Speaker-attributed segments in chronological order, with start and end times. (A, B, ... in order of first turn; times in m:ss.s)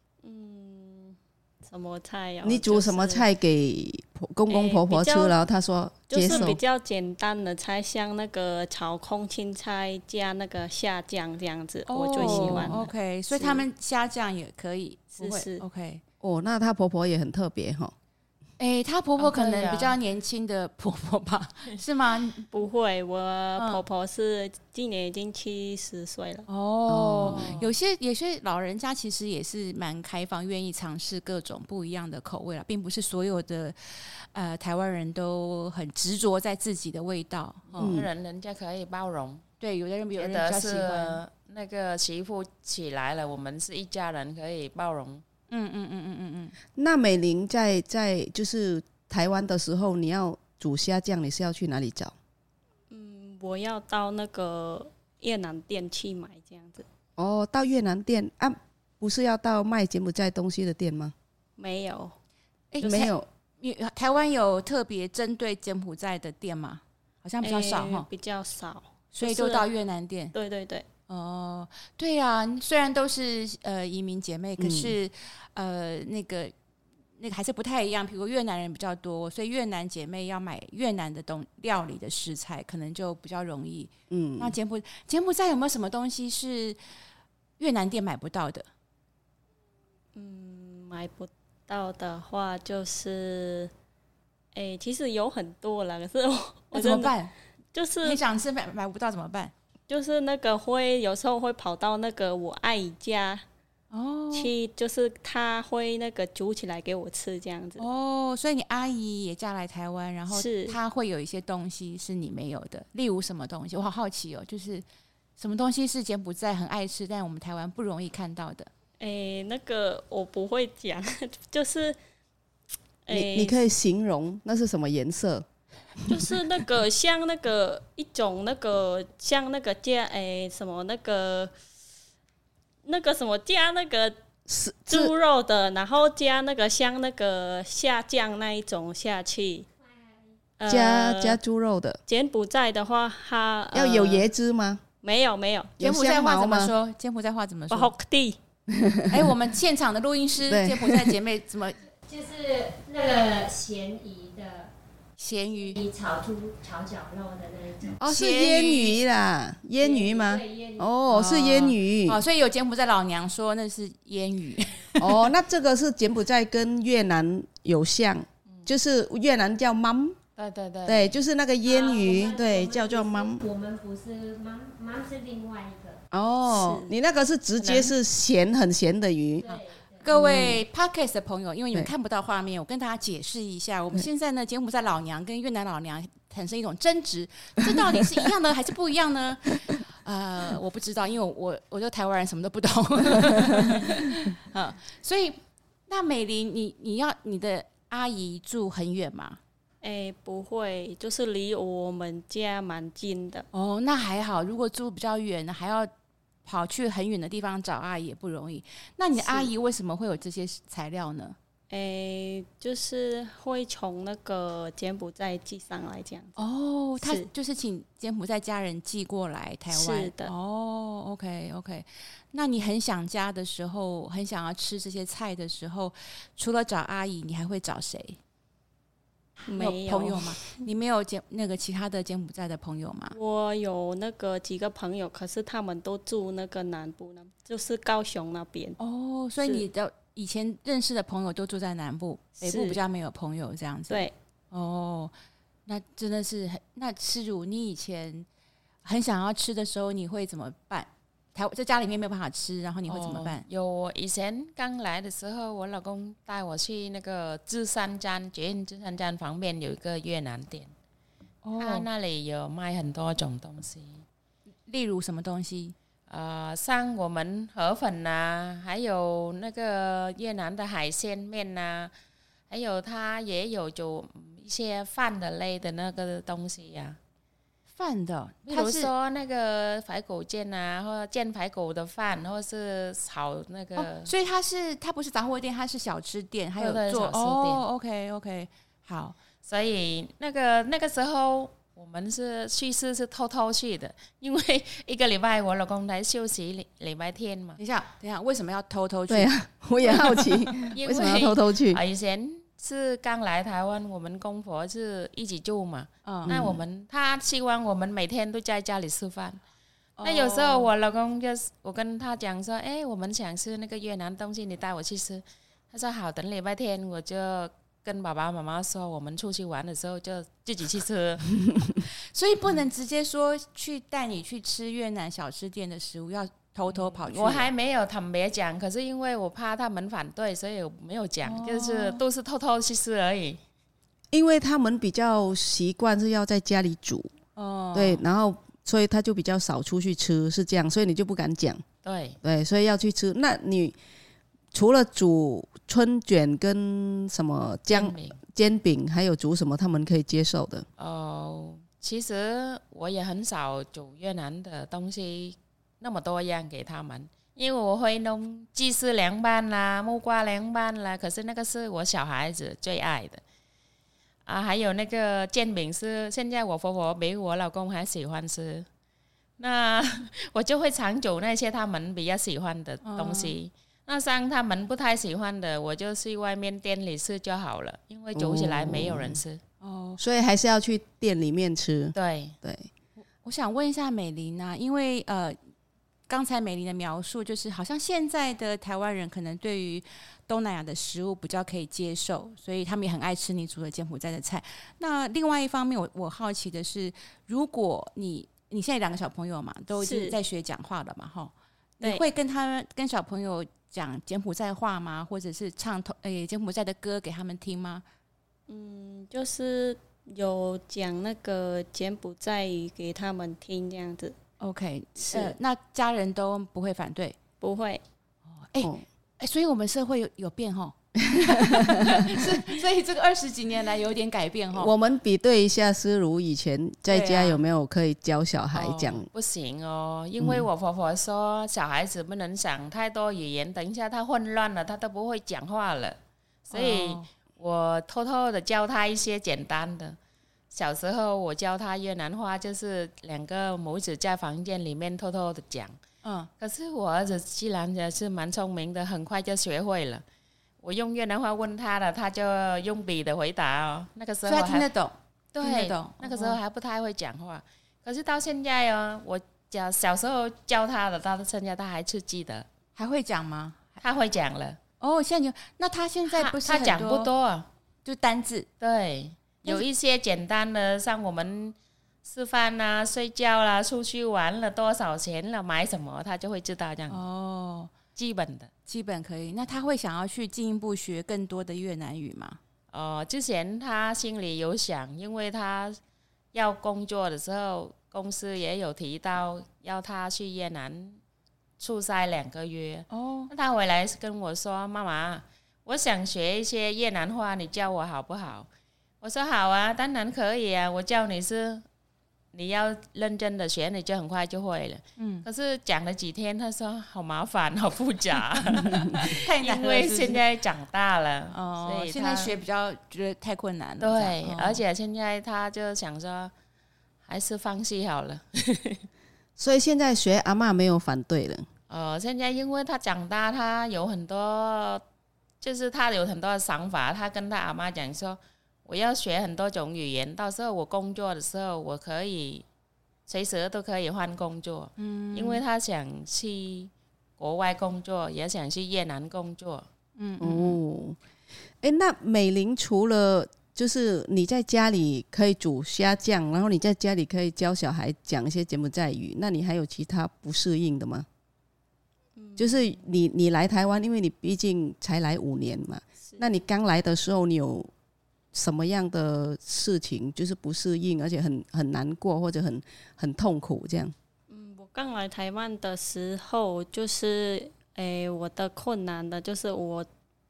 0:00.2-0:03.3 A
0:02.4-0:06.6 B
0:04.5-0:05.4 A
0:06.1-0:13.6 A
0:11.9-0:16.0 C
0:12.2-0:12.8 B
0:15.2-0:15.6 A
0:16.2-0:17.9 B
0:18.6-0:22.5 C
0:19.2-0:20.0 D
0:22.5-0:26.5 A
0:23.6-0:23.8 C
0:26.5-0:38.0 C
0:26.9-0:27.6 B
0:27.3-0:27.7 D
0:37.7-0:39.4 D
0:37.8-0:38.1 B
0:39.6-0:41.2 C
0:40.2-0:45.2 D
0:45.5-0:46.6 C
0:46.8-0:52.1 B
0:52.9-0:56.9 A
0:57.2-1:01.1 B
1:01.6-1:02.1 A
1:02.7-1:08.1 C
1:02.8-1:03.1 A
1:02.8-1:03.3 B
1:07.4-1:09.7 A
1:09.1-1:10.3 C
1:10.3-1:10.9 A
1:11.1-1:16.5 C
1:14.6-1:15.0 B
1:17.2-1:26.8 C
1:24.1-1:24.6 B
1:27.6-1:28.7 C
1:30.2-1:33.7 A
1:34.5-1:37.1 A
1:36.7-1:37.3 C
1:37.7-1:38.2 A
1:38.0-1:39.5 C
1:39.9-1:43.4 A
1:43.9-1:44.5 C
1:44.3-1:47.9 A
1:47.8-1:54.8 C
1:50.3-1:50.8 A
1:55.4-1:58.7 C
1:59.0-2:02.0 A
2:03.1-2:03.6 A
2:03.1-2:05.4 B
2:06.1-2:11.5 A
2:12.8-2:14.2 A
2:14.5-2:15.1 B
2:14.9-2:19.7 A
2:20.6-2:21.4 A
2:20.7-2:22.0 B
2:22.1-2:24.3 A
2:23.7-2:24.8 B
2:25.0-2:25.7 A
2:25.8-2:26.7 B
2:25.8-2:27.9 C
2:27.7-2:28.4 A
2:28.7-2:29.3 B
2:29.1-2:31.8 C
2:30.5-2:31.2 B
2:32.1-2:34.7 E
2:35.2-2:35.8 C
2:35.6-2:38.0 E
2:38.0-2:42.2 B
2:38.2-2:38.9 C
2:39.8-2:40.9 E
2:41.1-2:45.2 C
2:45.0-2:50.2 B
2:50.4-2:51.2 D
2:50.8-2:53.4 B
2:51.7-2:56.0 E
2:56.1-2:59.5 B
2:56.5-2:56.9 A
2:57.6-2:57.9 D
2:59.4-3:00.1 E
3:00.0-3:15.4 C
3:00.1-3:00.6 B
3:07.6-3:08.1 B
3:15.9-3:19.4 C
3:19.8-3:23.5 A
3:23.5-3:25.9 C
3:26.5-3:31.4 C
3:29.2-3:29.5 A
3:31.7-3:36.4 A
3:36.4-3:48.2 C
3:37.0-3:37.3 A
3:39.7-3:40.3 A
3:49.5-3:50.6 A
3:49.5-3:53.2 C
3:53.1-3:58.8 A
3:58.8-4:05.1 C
4:02.4-4:02.8 A
4:05.7-4:08.3 C
4:08.8-4:13.4 C
4:12.9-4:20.7 D
4:21.4-4:21.9 C
4:21.6-4:24.0 D
4:24.7-4:25.8 C
4:26.1-4:31.9 D
4:32.5-4:37.0 D
4:37.8-4:38.9 C
4:38.5-4:44.1 D
4:43.8-4:49.2 C
4:46.6-4:47.6 D
4:49.4-4:57.6 D
4:57.6-5:00.7 C
4:59.1-5:01.8 B
5:00.7-5:09.4 D
5:06.0-5:06.4 C
5:06.3-5:06.6 B
5:10.0-5:10.7 C
5:10.0-5:21.4 D
5:22.1-5:27.5 C
5:26.7-5:33.4 D
5:31.2-5:32.0 C
5:34.1-5:37.1 B
5:37.4-5:38.0 C
5:37.7-5:41.6 B
5:41.8-5:42.2 D
5:42.2-5:43.8 B
5:44.5-5:50.7 B
5:47.7-5:48.2 D
5:50.8-6:03.2 D
6:04.3-6:08.7 D
6:09.4-6:19.4 D
6:12.8-6:13.4 C
6:18.1-6:19.2 B
6:19.6-6:20.0 C
6:20.0-6:22.7 B
6:22.0-6:22.4 D
6:23.2-6:25.4 C
6:26.1-6:47.8 C
6:39.8-6:40.2 A
6:48.5-6:54.2 A
6:54.4-6:57.2 C
6:55.0-6:55.4 A
6:57.4-6:57.8 A
6:58.3-7:04.7 C
6:58.6-6:58.8 B
7:01.0-7:02.4 B
7:04.5-7:09.1 B
7:06.9-7:07.4 C
7:08.6-7:20.0 D
7:10.2-7:10.5 B
7:16.5-7:17.1 C
7:20.5-7:25.8 D
7:26.0-7:26.3 C
7:26.4-7:30.0 D
7:30.6-7:34.7 D
7:34.3-7:36.4 C
7:35.3-7:42.5 D
7:42.8-7:43.8 C
7:43.8-7:44.6 D
7:44.8-7:47.1 C
7:46.1-7:47.5 D
7:47.8-7:48.5 C
7:48.6-7:57.0 D
7:56.9-7:57.7 C
7:58.0-7:58.5 D
7:58.7-8:02.4 C
8:02.7-8:05.8 D
8:06.3-8:11.0 D
8:11.6-8:18.5 D
8:12.9-8:13.3 C
8:19.0-8:21.6 D
8:22.3-8:32.3 D
8:25.0-8:25.3 C
8:29.0-8:30.2 C
8:31.3-8:34.6 C
8:33.8-8:36.3 D
8:37.1-8:38.8 D
8:39.4-8:41.5 B
8:41.7-8:44.8 D
8:45.4-8:52.4 D
8:53.1-8:59.7 D
8:54.8-8:55.4 C
9:00.0-9:00.6 C
9:00.2-9:01.0 B
9:01.6-9:11.1 B
9:12.2-9:12.8 A
9:12.4-9:17.7 B
9:18.3-9:24.0 B
9:24.3-9:29.9 A